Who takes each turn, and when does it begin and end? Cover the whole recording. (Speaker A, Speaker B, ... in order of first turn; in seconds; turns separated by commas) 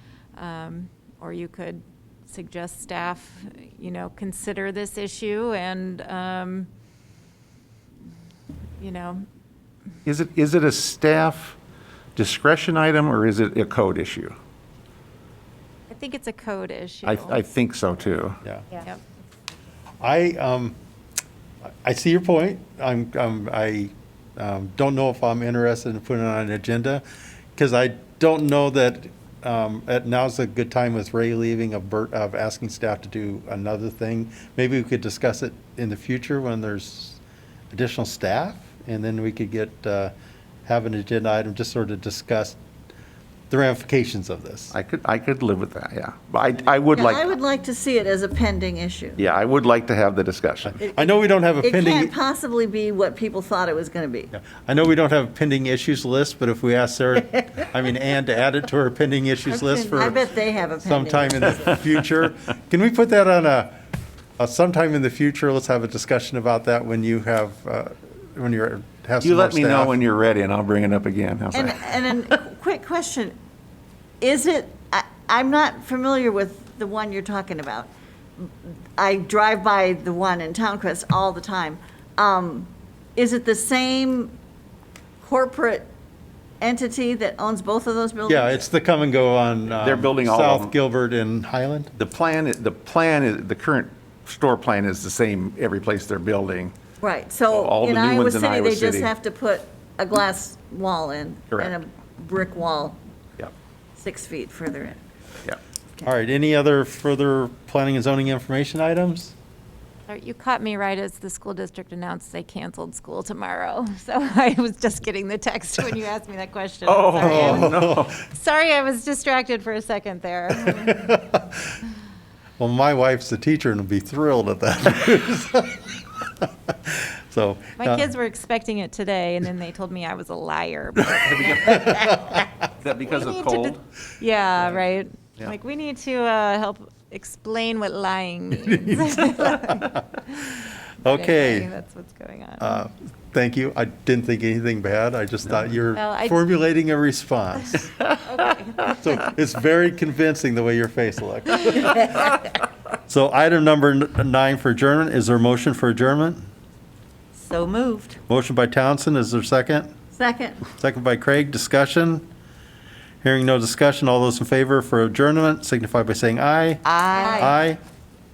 Speaker A: 0.4-6.7, Speaker A: 8.8-9.3, Speaker B: 10.1-11.6, Speaker B: 12.2-14.4, Speaker A: 15.9-17.4, Speaker B: 17.0-18.4, Speaker A: 18.8-19.0, Speaker C: 20.0-20.8, Speaker C: 21.8-27.0, Speaker C: 27.6-37.2, Speaker C: 37.7-40.1, Speaker C: 40.7-42.6, Speaker C: 43.5-44.7, Speaker B: 44.7-47.3, Speaker D: 46.9-49.2, Speaker B: 49.2-50.8, Speaker C: 50.6-52.1, Speaker D: 50.8-51.1, Speaker D: 51.6-54.3, Speaker C: 54.3-60.2, Speaker D: 59.5-61.7, Speaker C: 60.8-63.7, Speaker C: 64.4-70.0, Speaker B: 69.2-72.1, Speaker D: 71.5-73.3, Speaker D: 74.2-84.3, Speaker D: 85.2-85.9, Speaker D: 86.6-88.6, Speaker C: 88.3-91.9, Speaker B: 89.7-90.7, Speaker B: 92.0-96.8, Speaker D: 97.0-103.0, Speaker B: 97.5-99.1, Speaker D: 104.0-105.0, Speaker C: 106.0-109.3, Speaker A: 110.1-121.0, Speaker B: 116.9-118.2, Speaker C: 117.2-118.1, Speaker C: 120.6-121.5, Speaker C: 122.6-128.1, Speaker A: 127.8-132.1, Speaker B: 131.4-131.9, Speaker C: 131.6-132.4, Speaker B: 132.8-133.8, Speaker A: 133.0-142.8, Speaker C: 138.7-140.0, Speaker C: 141.0-141.7, Speaker C: 142.6-147.9, Speaker A: 145.9-146.4, Speaker A: 148.3-149.0, Speaker C: 148.8-152.4, Speaker C: 153.1-156.4, Speaker D: 157.4-158.2, Speaker C: 158.3-159.9, Speaker D: 160.2-160.6, Speaker C: 160.7-162.3, Speaker C: 163.2-167.8, Speaker D: 166.8-167.6